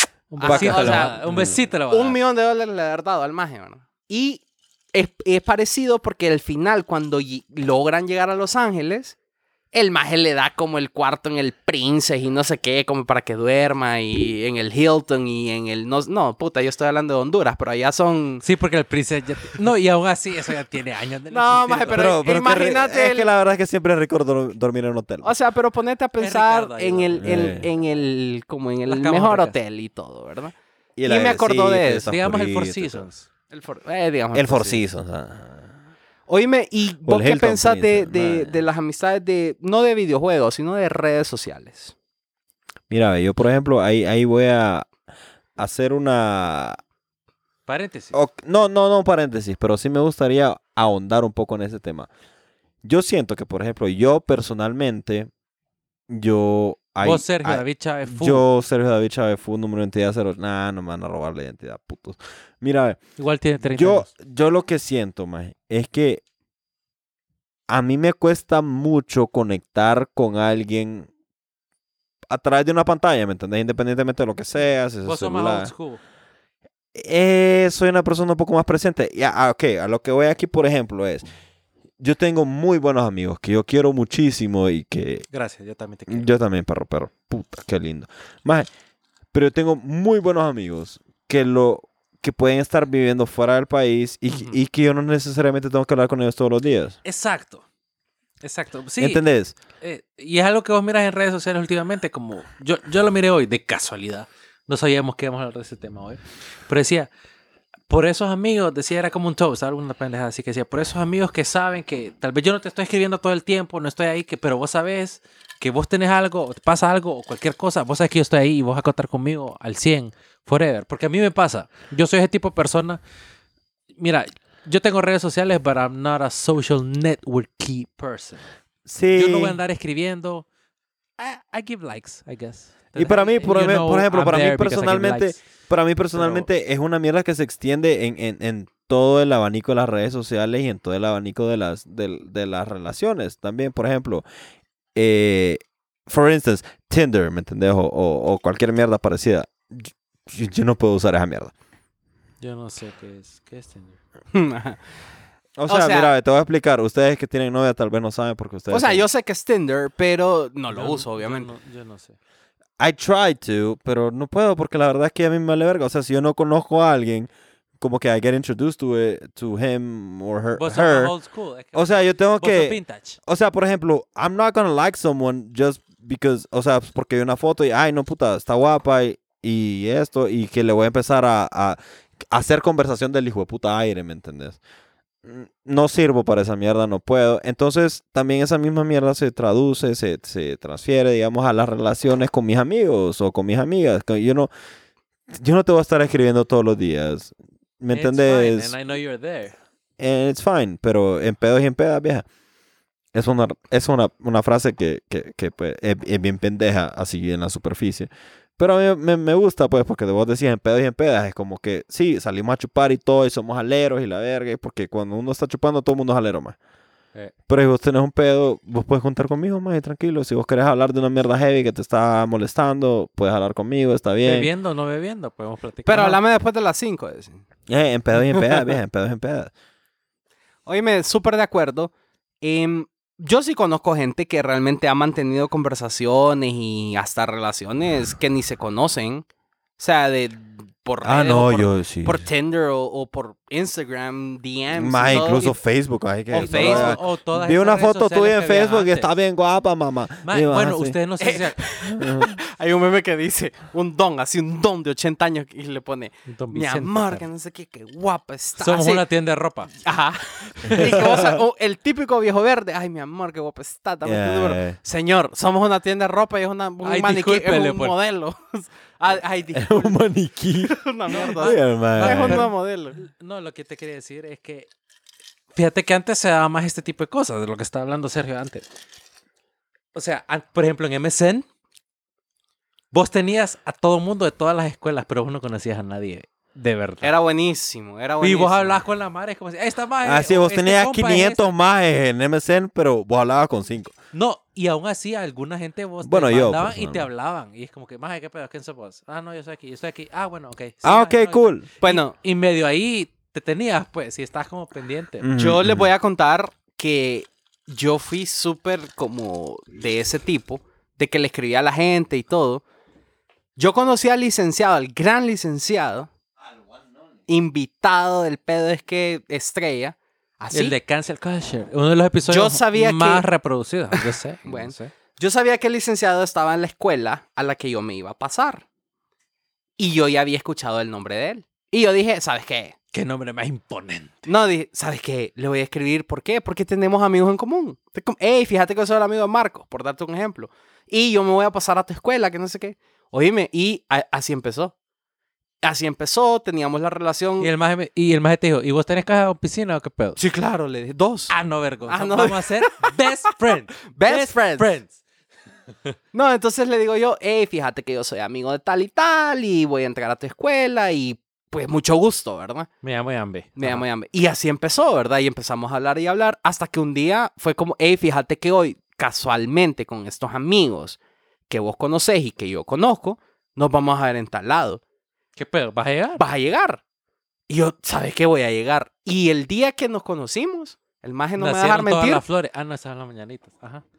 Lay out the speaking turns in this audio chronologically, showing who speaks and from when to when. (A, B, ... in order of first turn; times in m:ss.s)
0:00.3-0:02.2 A
0:00.4-0:09.1 B
0:00.4-0:01.6 C
0:09.7-0:18.4 B
0:18.4-0:22.2 A
0:21.3-0:23.3 B
0:21.9-0:25.3 C
0:25.2-0:30.5 B
0:26.2-0:27.6 A
0:27.2-0:27.6 C
0:28.9-0:29.5 A
0:31.0-0:33.0 C
0:31.0-0:32.1 B
0:32.0-0:33.2 A
0:33.5-0:34.8 B
0:34.3-0:35.6 C
0:36.3-0:41.9 B
0:37.0-0:38.5 C
0:42.9-0:44.9 C
0:45.6-0:46.8 C
0:47.7-0:48.2 A
0:48.1-0:52.1 C
0:52.8-0:55.3 C
0:56.1-1:03.0 C
0:57.0-0:58.4 A
1:03.2-1:04.1 A
1:03.6-1:06.2 C
1:07.7-1:11.1 C
1:12.3-1:15.7 C
1:15.0-1:16.0 A
1:16.9-1:21.2 C
1:22.0-1:25.2 C
1:25.3-1:26.3 A
1:26.1-1:28.7 C
1:29.3-1:37.0 C
1:34.3-1:34.6 A
1:37.0-1:37.6 A
1:38.4-1:39.2 A
1:39.0-1:39.5 C
1:39.8-1:47.1 A
1:47.9-2:03.0 A
2:04.0-2:08.5 A
2:08.8-2:09.6 C
2:09.1-2:10.4 A
2:11.2-2:15.4 A
2:12.9-2:24.2 C
2:16.1-2:16.5 A
2:24.9-2:31.5 C
2:32.4-2:34.0 A
2:34.3-2:34.8 B
2:35.6-2:39.0 C
2:35.7-2:36.1 B
2:38.7-2:41.5 B
2:40.7-2:42.2 A
2:42.8-2:51.1 C
2:50.6-2:53.2 A
2:51.7-3:04.6 C
3:05.2-3:14.5 C
3:15.3-3:18.7 C
3:17.9-3:19.6 A
3:20.0-3:22.2 C
3:23.1-3:36.6 C
3:37.5-3:44.5 C
3:44.2-3:46.2 A
3:45.8-3:47.4 B
3:47.7-3:49.5 C
3:50.6-3:59.2 B
3:59.8-4:05.6 B
4:01.0-4:02.2 C
4:04.7-4:11.0 C
4:06.3-4:07.0 B
4:06.3-4:09.1 A
4:10.2-4:11.6 A
4:11.2-4:19.0 B
4:11.9-4:12.4 C
4:16.3-4:17.2 A
4:18.6-4:19.8 A
4:19.8-4:30.0 B
4:20.7-4:21.4 C
4:24.0-4:24.8 C
4:26.8-4:27.9 A
4:29.5-4:32.5 C
4:30.6-4:33.0 B
4:31.1-4:34.7 A
4:35.5-4:38.6 A
4:39.9-4:41.4 A
4:42.9-4:47.1 A
4:47.0-4:48.8 B
4:48.2-4:51.5 A
4:50.0-4:53.9 C
4:54.1-5:05.3 A
4:56.0-4:57.1 C
5:00.8-5:01.7 C
5:01.8-5:02.1 B
5:05.2-5:05.9 C
5:05.3-5:12.6 B
5:13.6-5:16.1 B
5:17.3-5:20.7 B
5:20.5-5:24.9 A
5:22.3-5:23.2 B
5:23.9-5:28.6 B
5:29.8-5:32.7 B
5:32.9-5:34.3 A
5:34.3-5:44.7 B
5:45.6-5:47.5 B
5:47.4-5:50.2 A
5:50.2-5:51.3 B
5:51.3-5:54.9 A
5:51.9-5:53.3 B
5:53.9-5:54.7 B
5:56.1-6:02.7 B
6:02.8-6:03.8 A
6:03.6-6:14.8 B
6:15.4-6:16.2 A
6:16.2-6:16.8 B
6:17.5-6:22.2 B
6:21.4-6:23.8 A